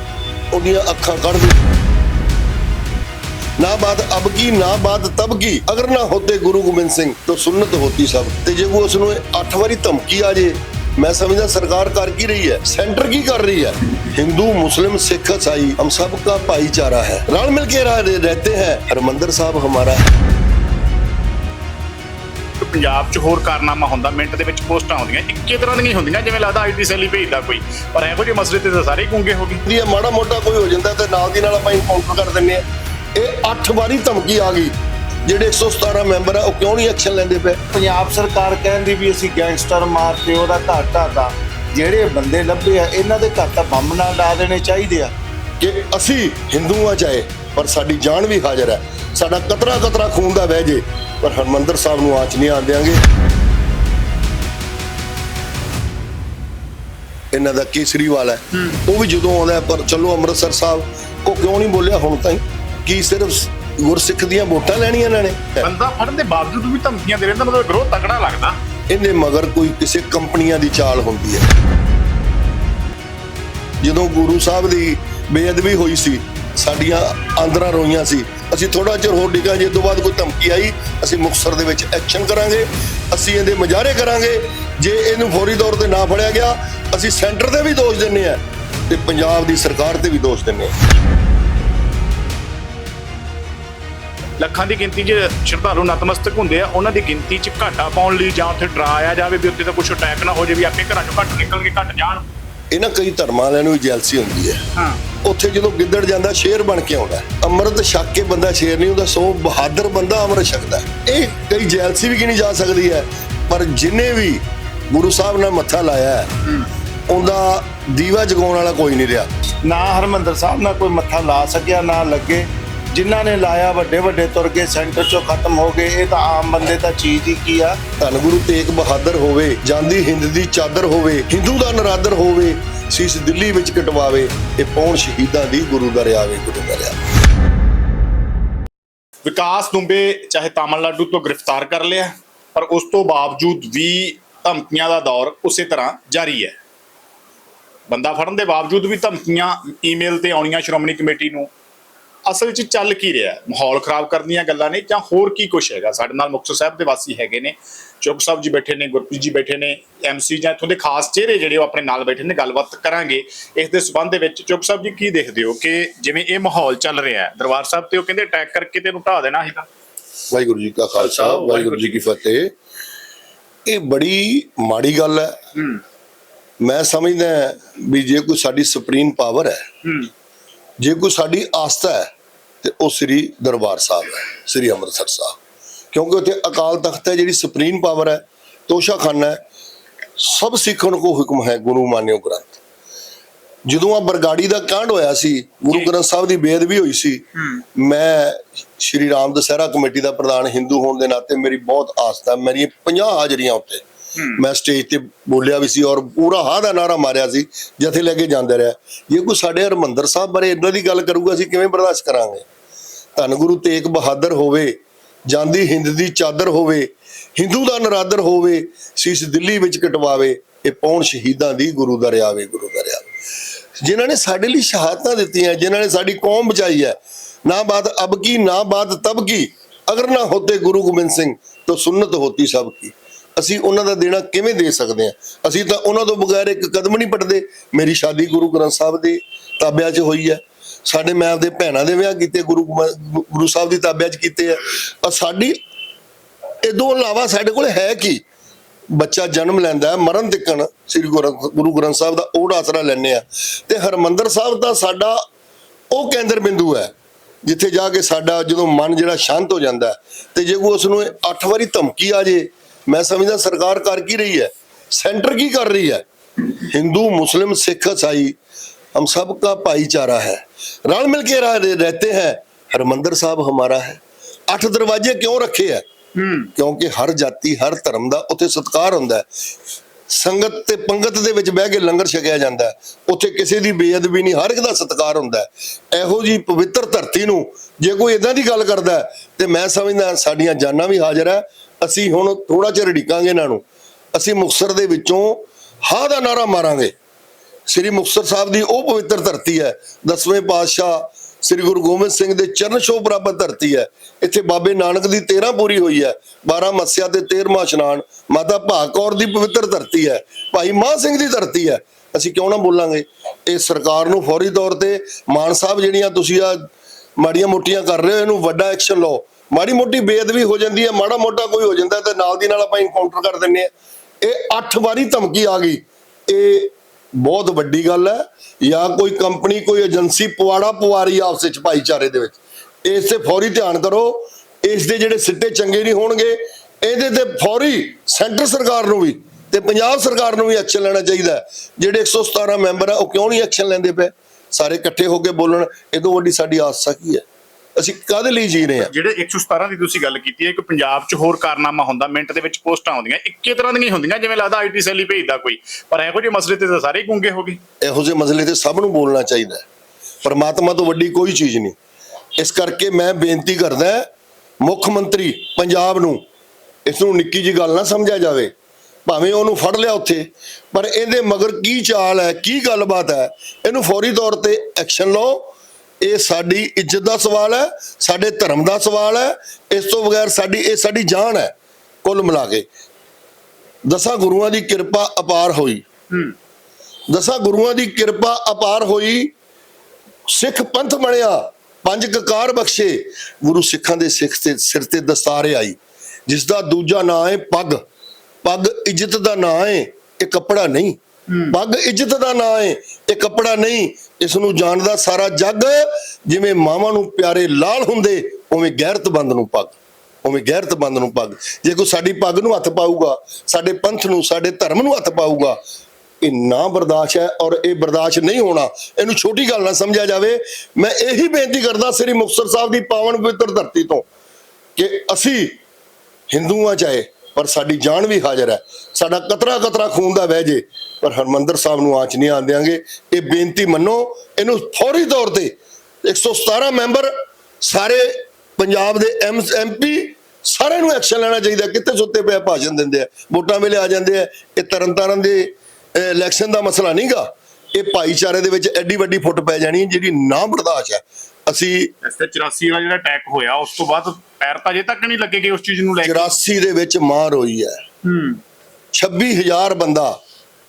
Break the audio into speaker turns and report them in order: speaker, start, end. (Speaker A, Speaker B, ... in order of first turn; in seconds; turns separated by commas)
Speaker A: 0.5-1.6, Speaker A: 3.6-20.1, Speaker B: 22.6-29.6, Speaker A: 29.6-32.6, Speaker A: 33.1-34.7, Speaker A: 35.2-37.6, Speaker C: 37.7-45.1, Speaker A: 45.6-53.0, Speaker A: 57.3-65.7, Speaker B: 65.6-68.6, Speaker A: 68.9-71.5, Speaker A: 73.8-90.7, Speaker B: 94.4-102.2, Speaker A: 102.7-104.6, Speaker B: 104.8-105.0, Speaker A: 105.2-116.3, Speaker A: 117.1-119.3, Speaker C: 119.6-127.8, Speaker A: 128.0-137.0, Speaker B: 139.2-146.5, Speaker B: 147.9-151.5, Speaker B: 152.2-169.7, Speaker A: 170.3-172.5, Speaker B: 171.0-172.0, Speaker A: 173.7-175.4, Speaker A: 176.6-179.7, Speaker A: 180.8-182.1, Speaker A: 182.6-185.4, Speaker A: 185.9-189.4, Speaker A: 190.2-192.6, Speaker A: 193.7-197.2, Speaker A: 197.7-203.8, Speaker A: 204.3-212.4, Speaker A: 213.2-214.8, Speaker A: 215.3-223.1, Speaker A: 223.8-245.6, Speaker A: 246.6-248.2, Speaker A: 248.9-255.2, Speaker A: 255.9-256.9, Speaker A: 257.4-268.4, Speaker A: 268.9-275.8, Speaker B: 276.1-276.5, Speaker A: 276.6-279.2, Speaker A: 280.1-293.6, Speaker A: 294.1-296.9, Speaker A: 297.7-316.7, Speaker A: 317.2-347.2, Speaker A: 347.8-348.9, Speaker B: 348.8-357.6, Speaker A: 357.8-359.6, Speaker A: 360.2-361.8, Speaker A: 362.4-364.1, Speaker A: 364.6-366.2, Speaker A: 366.9-368.5, Speaker A: 369.1-381.5, Speaker A: 382.0-382.6, Speaker A: 383.9-385.8, Speaker A: 387.1-389.3, Speaker A: 390.3-397.8, Speaker A: 398.4-401.0, Speaker A: 401.5-415.6, Speaker A: 416.2-424.1, Speaker A: 424.8-425.6, Speaker A: 426.3-451.9, Speaker B: 452.0-456.3, Speaker A: 456.0-457.8, Speaker B: 458.0-458.4, Speaker A: 458.9-460.2